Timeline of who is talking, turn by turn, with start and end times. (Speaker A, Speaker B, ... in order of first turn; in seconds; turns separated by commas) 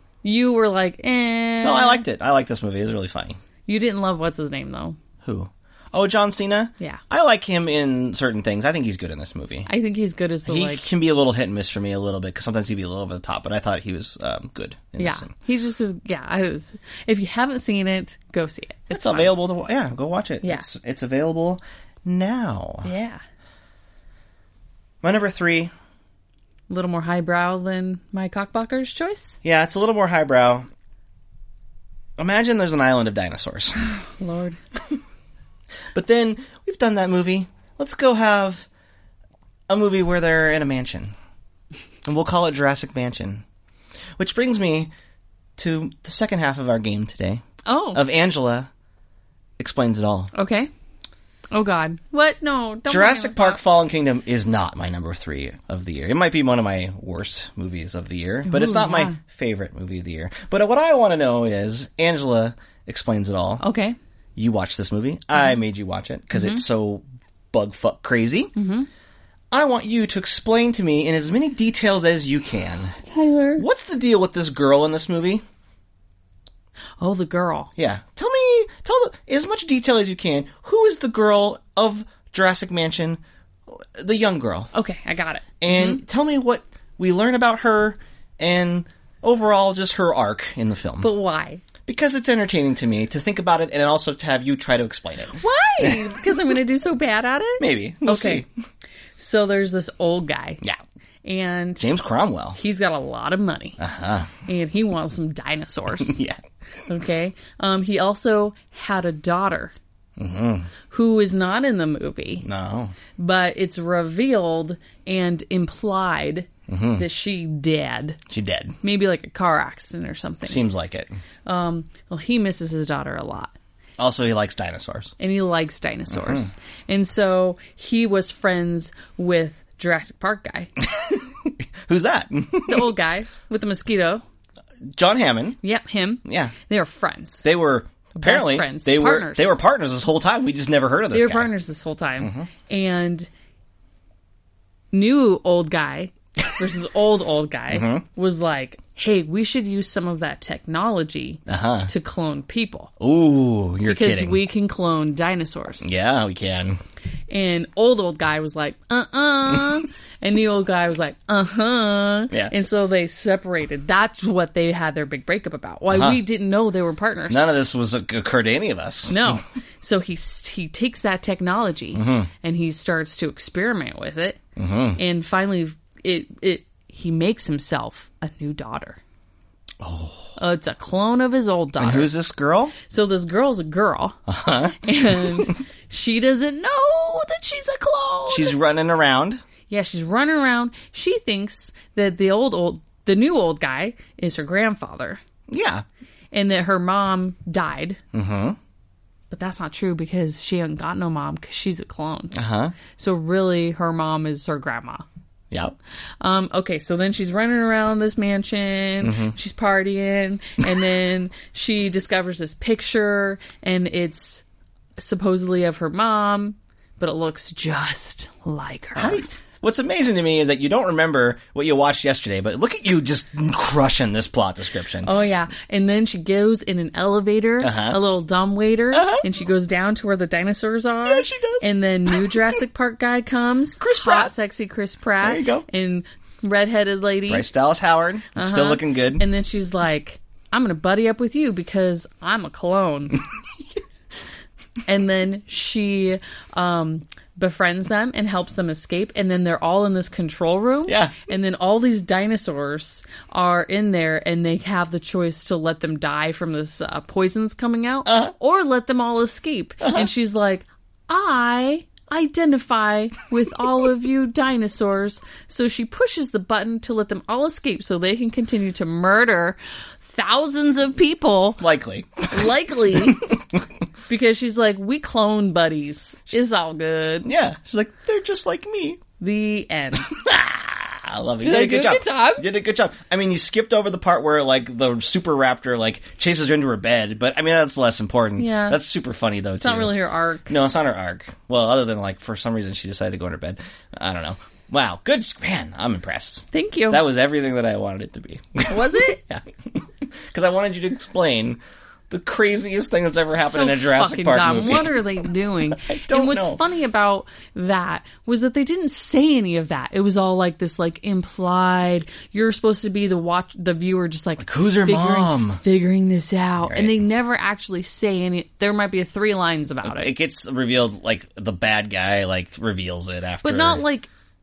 Speaker A: 0.2-2.0, Speaker B: 1.6-3.4, Speaker A: 3.7-5.0, Speaker B: 5.2-9.7, Speaker A: 9.7-10.8, Speaker B: 10.5-15.3, Speaker A: 15.0-19.3, Speaker B: 18.9-22.9, Speaker A: 22.8-23.2, Speaker B: 25.0-25.7, Speaker A: 26.7-29.4, Speaker B: 29.4-30.7, Speaker B: 32.2-33.8, Speaker A: 33.8-34.6, Speaker B: 35.9-38.7, Speaker B: 39.7-41.1, Speaker B: 42.0-43.4, Speaker B: 44.2-44.9, Speaker B: 45.6-47.4, Speaker A: 47.7-48.0, Speaker B: 47.9-48.7, Speaker B: 49.6-50.3, Speaker A: 50.3-50.7, Speaker A: 51.5-53.6, Speaker B: 52.9-63.6, Speaker A: 58.5-59.2, Speaker A: 63.6-64.0, Speaker B: 64.4-68.5, Speaker A: 66.3-66.6, Speaker A: 68.6-68.9, Speaker B: 69.5-73.0, Speaker A: 73.0-73.6, Speaker B: 73.6-75.4, Speaker A: 77.0-77.7, Speaker B: 77.8-84.7, Speaker A: 84.7-86.0, Speaker B: 85.6-91.1, Speaker A: 91.0-91.6, Speaker B: 91.9-96.0, Speaker A: 95.3-98.4, Speaker B: 97.6-98.5, Speaker A: 99.2-100.6, Speaker A: 101.2-101.8, Speaker B: 101.8-102.6, Speaker A: 102.6-103.8, Speaker B: 103.8-104.4, Speaker A: 104.5-106.2, Speaker B: 106.0-106.4, Speaker A: 106.9-109.7, Speaker B: 110.2-110.7, Speaker A: 110.9-112.5, Speaker B: 112.4-112.9, Speaker A: 113.2-118.2, Speaker B: 116.7-117.1, Speaker B: 118.3-118.8, Speaker A: 118.8-120.6, Speaker B: 120.5-121.1, Speaker A: 121.5-123.5, Speaker B: 124.0-125.2, Speaker A: 125.2-130.7, Speaker B: 126.1-126.5, Speaker B: 130.8-132.9, Speaker A: 132.7-134.2, Speaker B: 134.9-135.6, Speaker A: 135.6-137.5, Speaker B: 136.2-136.5, Speaker B: 137.4-141.5, Speaker A: 138.2-139.6, Speaker A: 141.1-143.3, Speaker B: 142.2-142.5, Speaker A: 144.9-152.9, Speaker B: 147.7-148.0, Speaker B: 151.5-151.9, Speaker B: 153.0-154.4, Speaker A: 153.9-155.9, Speaker B: 155.8-156.8, Speaker A: 157.3-167.5, Speaker B: 165.9-166.2, Speaker B: 167.3-169.4, Speaker A: 169.1-174.4, Speaker B: 171.9-172.3, Speaker B: 174.6-175.0, Speaker A: 175.0-179.0, Speaker B: 179.8-180.4, Speaker A: 180.4-182.1, Speaker B: 181.8-182.8, Speaker A: 182.8-184.2, Speaker B: 184.3-185.5, Speaker A: 184.8-188.6, Speaker B: 188.3-189.4, Speaker A: 189.7-195.2, Speaker B: 195.5-195.8, Speaker A: 196.3-198.0, Speaker B: 198.1-198.6, Speaker A: 199.3-202.4, Speaker B: 202.3-202.8, Speaker A: 202.9-205.1, Speaker B: 205.5-205.8, Speaker A: 206.2-214.4, Speaker B: 209.0-209.3, Speaker A: 215.0-219.2, Speaker B: 219.0-225.1, Speaker A: 225.0-237.5, Speaker B: 227.6-228.0, Speaker B: 228.9-229.2, Speaker B: 231.1-232.6, Speaker B: 233.8-234.3, Speaker B: 235.2-235.7, Speaker B: 237.3-239.2, Speaker A: 238.3-243.2, Speaker A: 244.9-271.6, Speaker B: 250.9-251.2, Speaker B: 258.1-258.3, Speaker B: 271.6-273.6, Speaker A: 272.3-273.4, Speaker A: 274.1-277.3, Speaker B: 277.2-279.0, Speaker A: 279.2-280.1, Speaker B: 280.0-289.9, Speaker A: 281.4-282.5, Speaker A: 288.4-288.8, Speaker A: 289.6-290.5, Speaker B: 290.5-301.6, Speaker A: 296.5-297.0, Speaker A: 298.7-299.2, Speaker B: 302.1-306.6, Speaker A: 303.4-320.1, Speaker B: 314.4-315.6, Speaker B: 316.6-316.9, Speaker B: 319.8-323.8, Speaker A: 323.4-324.1